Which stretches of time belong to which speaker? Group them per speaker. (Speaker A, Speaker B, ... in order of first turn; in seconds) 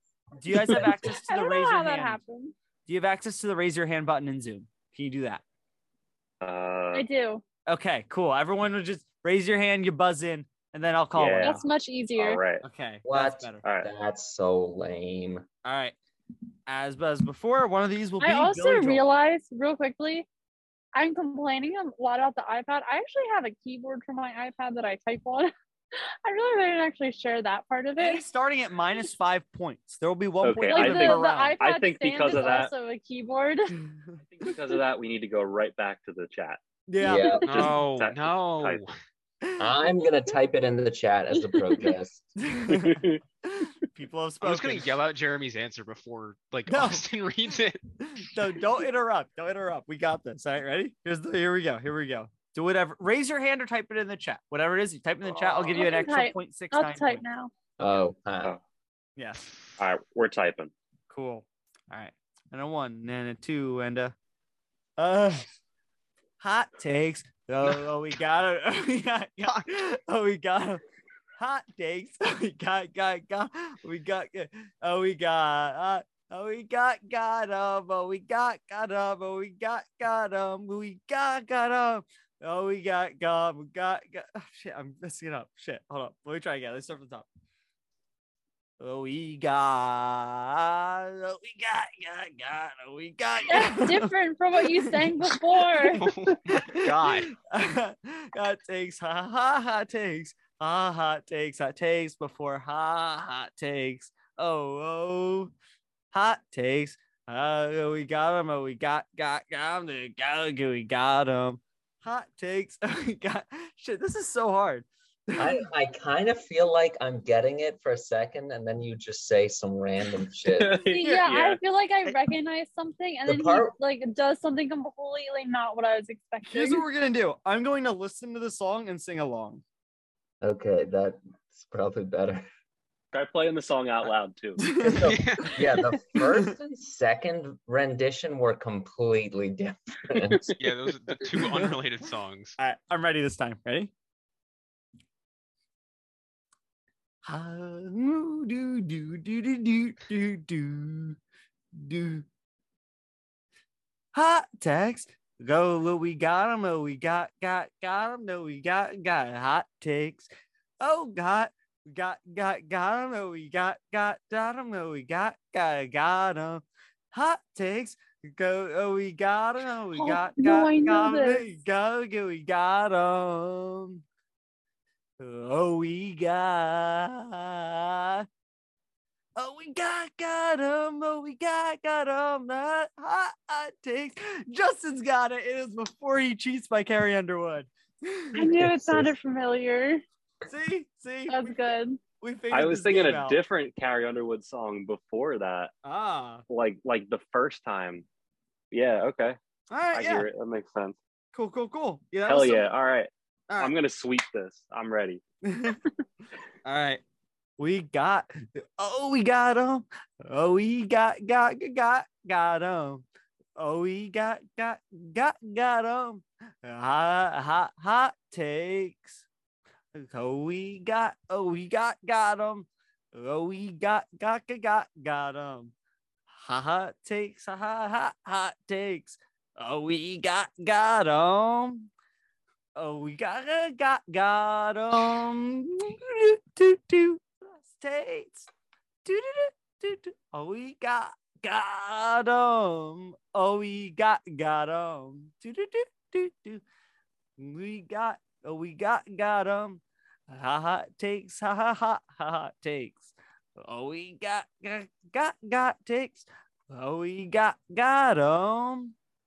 Speaker A: 0.4-2.2, 2.9-5.4, 7.7-11.6, 12.6-13.6, 15.6-15.9, 16.7-19.1, 28.0-31.6, 32.3-32.6, 36.9-37.4, 39.4-39.8, 42.4-45.0, 46.7-47.0, 48.1-57.2, 59.2-59.5, 61.1-64.1, 65.0-65.5, 66.4-70.8, 71.4-87.3, 88.8-95.3, 96.5-105.5, 106.1-115.6, 126.5-129.6, 134.6-136.5, 141.4-141.8, 142.6-143.9, 147.2-151.2, 151.8-152.3, 154.1-160.3, 160.8-174.0, 175.2-178.3, 179.4-188.5, 190.5-191.6, 192.2-193.4, 195.8-196.4, 199.7-200.3, 201.3-202.7, 205.4-205.8, 206.7-207.0, 207.6-213.0, 213.6-219.2, 219.9-225.7, 226.3-231.9, 232.8-238.5, 239.1-246.6, 247.4-258.9
Speaker B: 0.5-0.9, 13.1-15.5, 37.0-37.7, 39.6-42.3, 57.8-58.6, 115.4-120.8, 123.3-123.7, 130.4-132.5, 134.8-140.5, 188.5-189.1
Speaker C: 1.1-2.5, 6.9-7.4, 11.4-12.4, 18.2-20.3, 20.9-28.2, 30.7-33.8, 37.1-37.4, 55.7-57.5, 93.5-96.0, 120.9-126.8, 169.9-171.5, 188.3-190.0, 191.3-192.0
Speaker D: 6.4-7.1, 11.2-11.6, 12.2-12.6, 13.6-13.9, 30.4-32.7, 34.2-36.6, 37.5-38.8, 42.7-43.2, 55.2-55.9, 59.8-60.7, 120.5-121.6, 133.1-134.7, 140.2-140.6, 192.5-195.7, 196.5-198.1, 198.7-199.4, 199.9-201.0, 202.2-205.2
Speaker E: 37.4-38.9, 44.4-47.8, 95.9-97.3, 135.0-135.6, 140.6-142.6